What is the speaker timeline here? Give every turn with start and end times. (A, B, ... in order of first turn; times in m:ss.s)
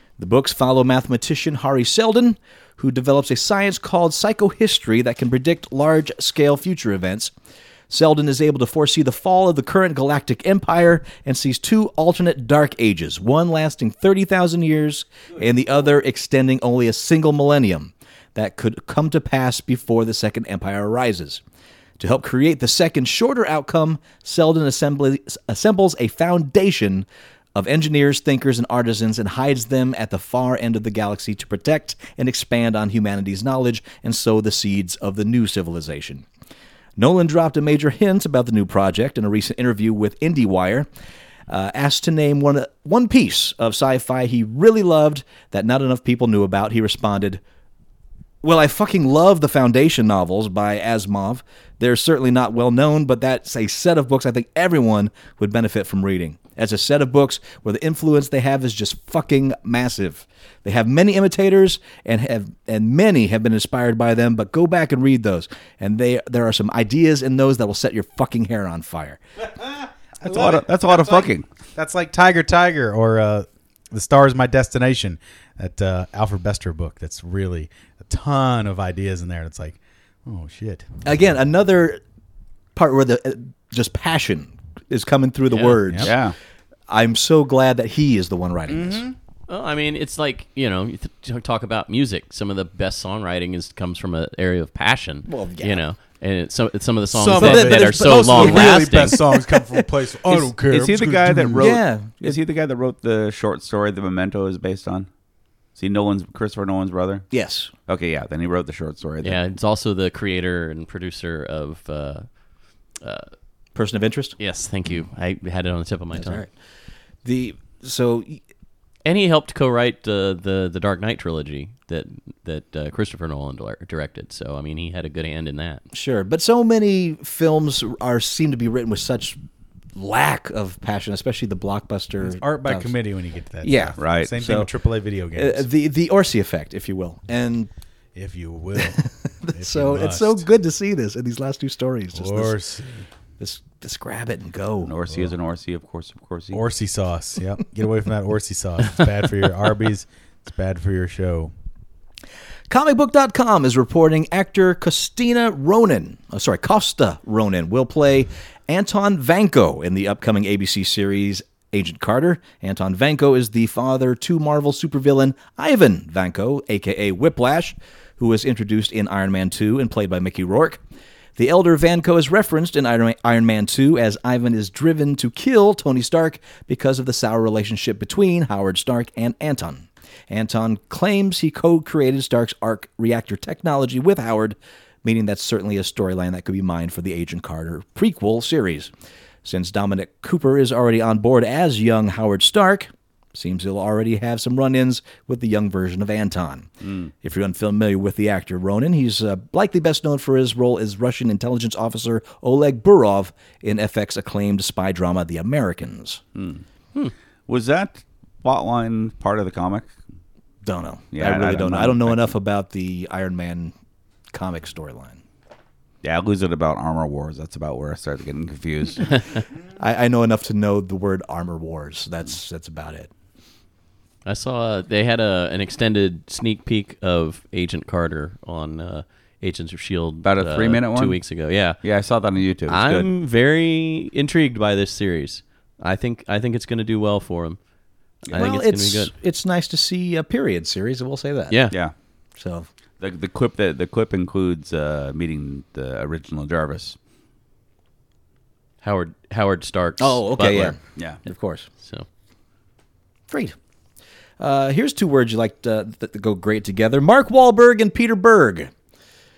0:00.2-0:07.3 A
0:07.9-0:21.4 A
0:22.0-0:36.3 A
0:37.0-0:40.9 A
0:41.5-0:47.4 A
0:48.4-1:09.2 A
1:10.2-1:20.9 B
1:10.2-1:11.4 C
1:21.0-1:22.0 A
1:22.8-1:26.2 A
1:25.5-1:25.8 D
1:26.0-1:26.4 C
1:26.9-1:29.0 A
1:28.7-1:29.2 B
1:29.5-1:39.2 D
1:35.3-1:35.8 A
1:37.1-1:41.8 B
1:37.4-1:39.6 A
1:40.3-1:45.1 C
1:41.6-1:42.4 A
1:45.8-1:47.3 C
1:47.3-1:47.7 A
1:47.9-1:49.4 C
1:49.2-1:52.3 D
1:53.0-1:53.3 D
1:53.8-1:54.4 A
1:54.4-1:56.4 D
1:56.1-1:56.5 A
1:57.2-1:58.4 A
1:59.0-2:05.8 D
2:05.9-2:09.4 A
2:10.0-2:12.9 A
2:12.2-2:15.7 B
2:13.6-2:14.7 A
2:14.0-2:14.3 C
2:15.4-2:17.7 A
2:18.2-2:19.0 B
2:18.9-2:22.6 A
2:19.5-2:20.4 B
2:22.1-2:23.1 B
2:23.4-2:24.9 A
2:24.8-2:26.6 C
2:26.5-2:31.5 B
2:32.7-2:50.8 A
2:51.4-3:08.9 A
3:09.4-3:26.2 A
3:16.8-3:17.1 C
3:26.4-3:26.6 C
3:27.5-3:29.9 C
3:30.6-3:33.7 A
3:31.1-3:32.3 C
3:34.3-3:35.2 A
3:36.0-3:39.2 C
3:39.8-3:43.1 A
3:44.3-3:51.8 D
3:50.2-3:51.2 C
3:51.8-3:53.1 C
3:52.7-3:57.6 D
3:58.3-3:59.1 D
3:58.3-4:01.5 A
4:01.5-4:01.8 D
4:02.4-4:02.7 A
4:03.0-4:07.0 C
4:08.8-4:10.8 D
4:10.0-4:11.7 A
4:11.8-4:12.1 D
4:13.3-4:13.6 A
4:14.4-4:18.7 A